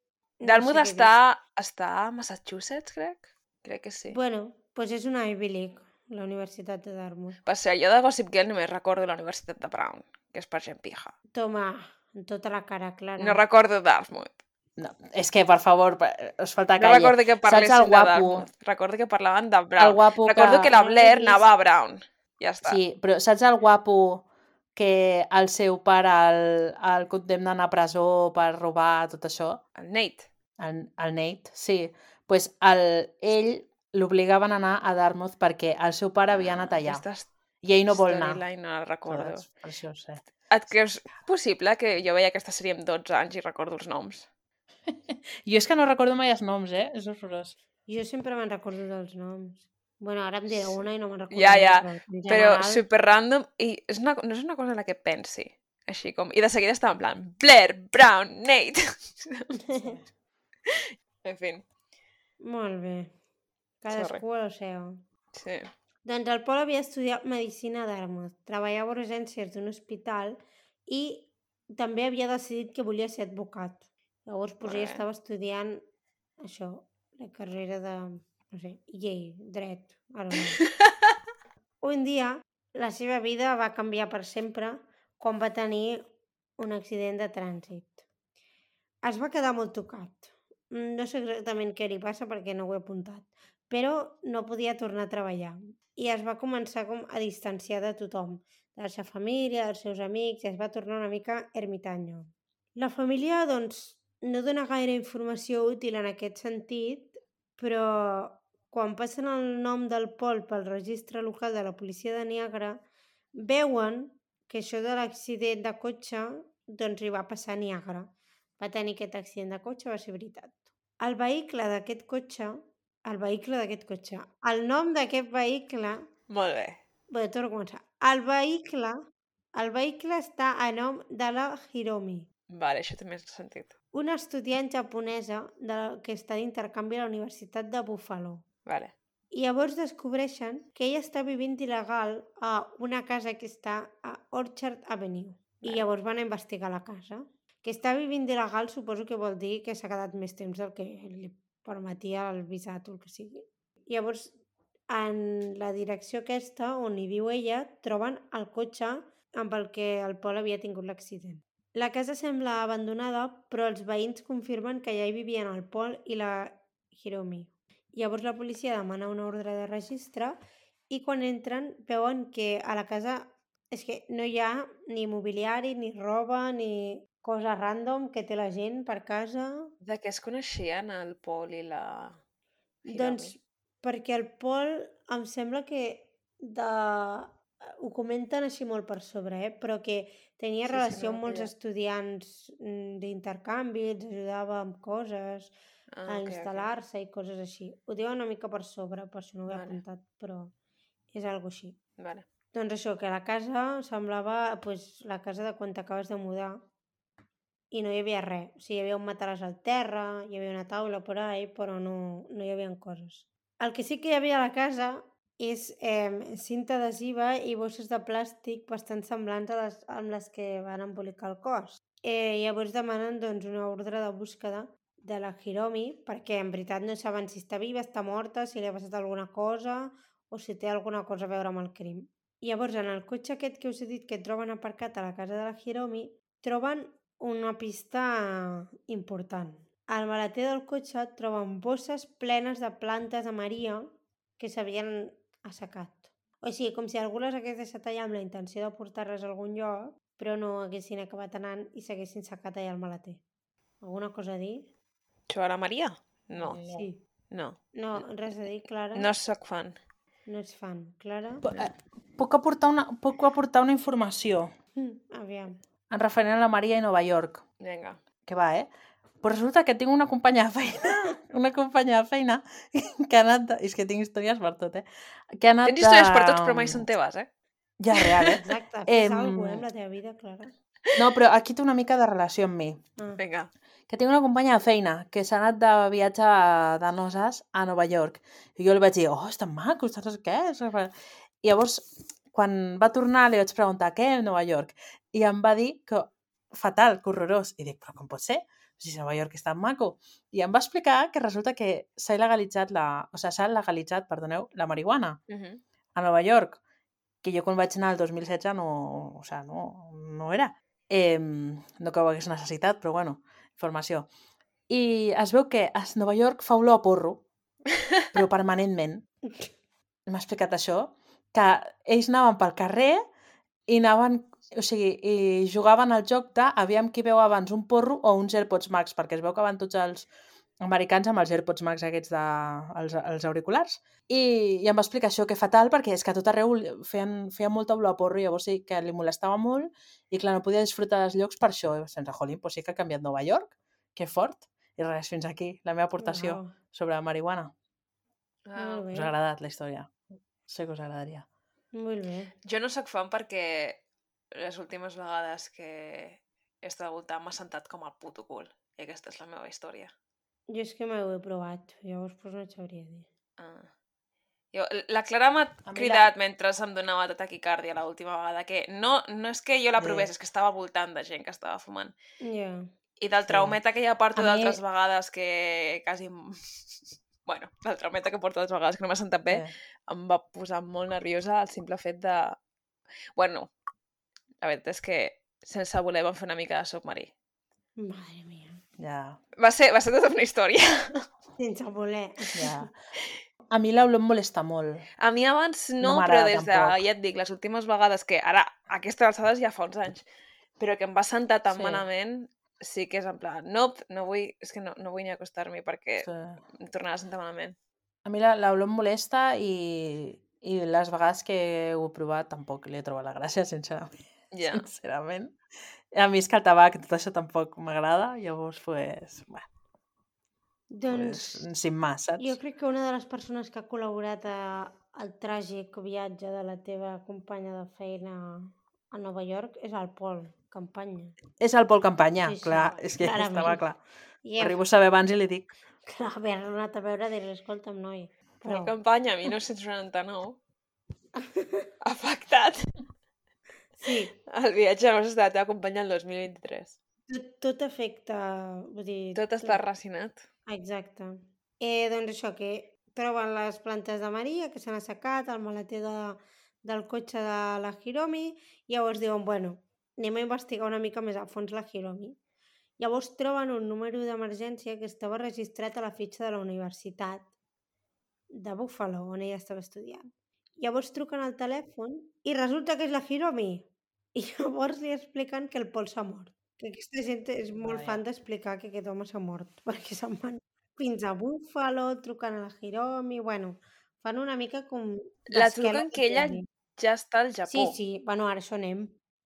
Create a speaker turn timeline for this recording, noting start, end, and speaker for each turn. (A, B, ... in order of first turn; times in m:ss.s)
0:00.4-0:01.2 A
0:00.4-0:04.2 B
0:04.1-0:07.4 A
0:07.5-0:11.1 B
0:11.3-0:13.4 A
0:13.2-0:14.3 B
0:14.8-0:18.5 C
0:16.8-0:22.8 B
0:19.8-0:20.7 C
0:20.7-0:21.5 A
0:22.6-0:24.2 C
0:24.8-0:29.6 C
0:29.8-0:30.3 B
0:30.6-0:37.0 C
0:36.3-0:37.3 B
0:37.6-0:38.4 C
0:37.9-0:39.5 B
0:39.1-0:40.2 C
0:40.5-0:44.3 B
0:44.9-0:47.6 C
0:47.9-0:52.8 A
0:51.3-0:59.6 B
0:59.6-1:00.0 A
1:00.7-1:01.7 B
1:02.4-1:03.1 A
1:03.8-1:05.0 A
1:03.9-1:04.2 B
1:05.3-1:05.7 B
1:06.0-1:15.8 A
1:14.6-1:15.0 B
1:16.4-1:20.6 A
1:20.6-1:20.9 B
1:21.8-1:28.1 A
1:29.0-1:52.8 A
1:53.4-2:06.1 A
2:06.3-2:06.8 B
2:07.1-2:09.0 A
2:09.6-2:12.3 A
2:12.5-2:13.8 B
2:13.9-2:18.4 A
2:18.7-2:19.0 B
2:19.3-2:34.4 A
2:34.9-2:59.7 A
2:59.8-3:02.2 B
3:02.8-3:15.6 A
3:02.9-3:03.4 B
3:10.7-3:11.5 B
3:15.9-3:16.7 B
3:16.1-3:20.5 A
3:19.5-3:19.8 B
3:21.1-3:21.8 A
3:22.0-3:22.3 B
3:22.5-3:26.6 A
3:27.7-4:13.2 A
4:13.8-4:14.7 A
4:15.3-4:16.7 B
4:16.4-4:16.8 C
4:16.7-4:17.0 A
4:17.3-4:17.6 B
4:17.7-4:19.1 A
4:18.9-4:19.8 B
4:20.3-4:21.4 A
4:21.4-4:24.5 C
4:24.8-4:25.6 A
4:25.9-4:27.4 C
4:27.6-4:28.0 B
4:28.2-4:28.7 C
4:29.2-4:36.9 C
4:35.6-4:37.3 B
4:37.8-4:39.6 C
4:37.9-4:38.4 B
4:38.3-4:40.5 A
4:41.0-4:42.8 C
4:43.2-4:43.5 B
4:43.9-5:05.2 C
5:05.3-5:05.6 B
5:06.0-5:06.6 C
5:07.2-5:14.1 C
5:14.7-5:17.2 C
5:18.1-5:19.1 C
5:20.1-5:23.0 C
5:23.7-5:30.1 C
5:30.6-5:47.5 C
5:46.0-5:46.6 A
5:48.5-5:48.9 B
5:48.6-5:49.1 A
5:48.9-5:49.9 C
5:50.5-5:51.3 C
5:51.7-5:52.3 A
5:52.4-5:53.8 B
5:54.3-5:59.9 B
6:00.5-6:03.1 A
6:03.4-6:03.7 B
6:04.5-6:12.0 B
6:05.7-6:06.1 C
6:09.8-6:10.1 C
6:12.2-6:12.7 A
6:13.0-6:22.4 B
6:13.3-6:13.6 C
6:14.2-6:14.4 A
6:14.3-6:14.6 C
6:23.2-6:23.5 B
6:24.4-6:27.1 B
6:27.8-6:28.6 A
6:28.8-6:29.2 C
6:29.4-6:31.1 B
6:31.4-6:32.6 A
6:32.4-6:32.7 C
6:33.5-6:34.8 C
6:35.0-6:40.0 B
6:35.8-6:36.8 C
6:40.6-6:47.6 B
6:41.5-6:41.9 C
6:46.0-6:46.4 C
6:48.0-6:53.9 C
6:54.3-6:54.7 B
6:54.4-6:55.4 C
6:55.9-6:59.5 C
7:00.7-7:01.5 A
7:00.9-7:02.4 C
7:02.2-7:11.2 A
7:11.4-7:13.8 C
7:12.2-7:13.6 A
7:14.2-7:14.6 A
7:14.4-7:15.5 C
7:15.9-7:18.8 A
7:18.4-7:20.4 B
7:21.2-7:21.7 A
7:21.8-7:22.7 B
7:23.8-7:24.2 A
7:24.3-7:26.8 B
7:27.1-7:29.6 A
7:29.2-7:30.3 B
7:30.5-7:42.2 A
7:42.8-7:47.3 A
7:48.3-8:06.5 A
7:57.6-7:58.0 C
8:05.3-8:07.8 B
8:07.5-8:09.0 A